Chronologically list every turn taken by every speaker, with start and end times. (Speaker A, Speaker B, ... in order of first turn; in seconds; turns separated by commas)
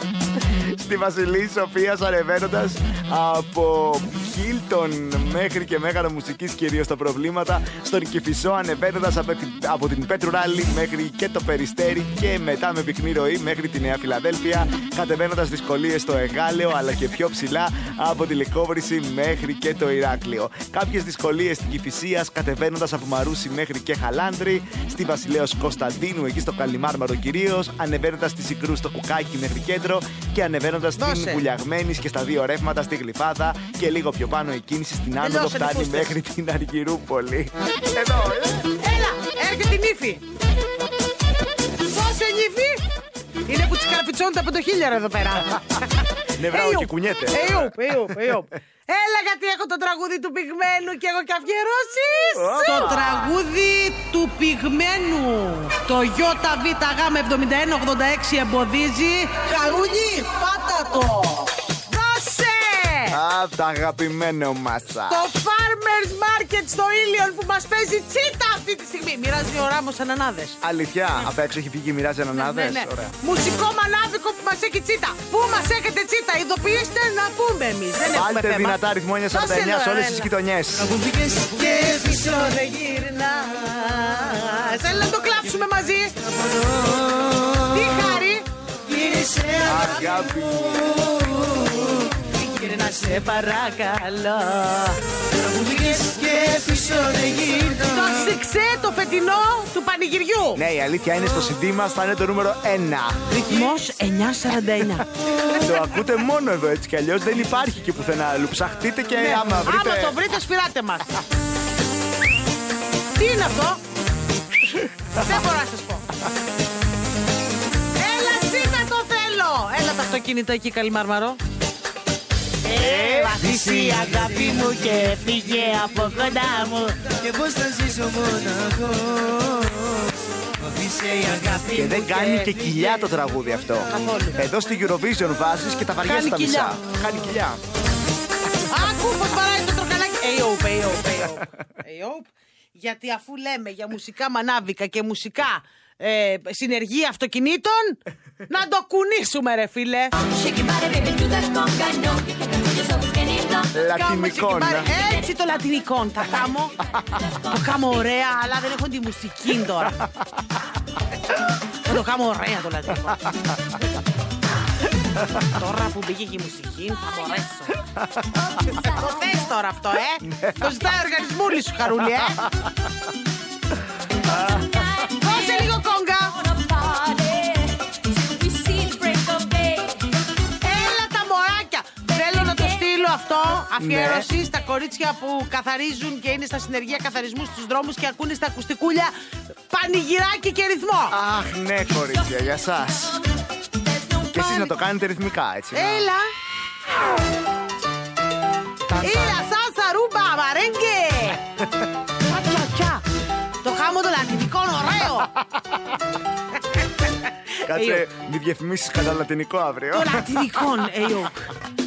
Speaker A: 0.3-38.7, Speaker B: 31.0-31.4, Speaker B: 35.2-36.2, Speaker B: 38.8-40.2, Speaker B: 41.8-42.8, Speaker B: 43.5-45.8, Speaker A: 46.4-48.4, Speaker B: 46.5-63.2, Speaker A: 52.3-53.3, Speaker A: 63.1-65.3, Speaker B: 65.1-70.6, Speaker A: 70.6-73.1, Speaker B: 72.3-80.3, Speaker A: 78.1-81.1, Speaker B: 81.0-86.7, Speaker B: 87.5-90.3, Speaker A: 89.6-91.2, Speaker B: 91.1-100.6, Speaker A: 100.5-103.4, Speaker B: 103.3-105.7, Speaker A: 105.5-110.2, Speaker B: 109.2-111.2, Speaker B: 113.1-113.8, Speaker A: 114.7-115.3, Speaker B: 115.1-116.1, Speaker B: 118.0-121.4, Speaker B: 122.6-129.2, Speaker A: 122.7-123.5, Speaker B: 130.7-133.1, Speaker A: 131.7-137.6, Speaker B: 133.9-134.4, Speaker B: 136.0-136.8, Speaker B: 138.7-150.1, Speaker C: 150.2-153.7, Speaker A: 153.7-154.9, Speaker B: 153.8-156.7, Speaker C: 154.9-155.4, Speaker C: 157.0-157.8, Speaker B: 157.5-160.0, Speaker A: 160.0-160.5, Speaker B: 161.8-163.3, Speaker A: 163.1-163.8, Speaker A: 165.1-165.5, Speaker B: 165.4-167.8, Speaker A: 167.8-168.7, Speaker B: 168.7-172.4, Speaker C: 168.8-169.3, Speaker A: 170.2-170.8, Speaker A: 172.0-172.9, Speaker C: 174.2-180.1, Speaker A: 174.3-174.7, Speaker B: 175.2-176.3, Speaker B: 180.6-189.1, Speaker C: 182.2-182.8, Speaker A: 183.8-184.3, Speaker B: 189.7-191.2, Speaker A: 191.1-193.2, Speaker C: 192.1-193.2, Speaker C: 193.9-194.6, Speaker A: 194.3-196.1, Speaker B: 195.7-196.3, Speaker A: 198.9-199.4, Speaker B: 199.0-201.4, Speaker B: 202.3-203.0, Speaker B: 203.6-205.3, Speaker B: 206.7-208.0, Speaker A: 207.6-210.5, Speaker B: 209.9-211.5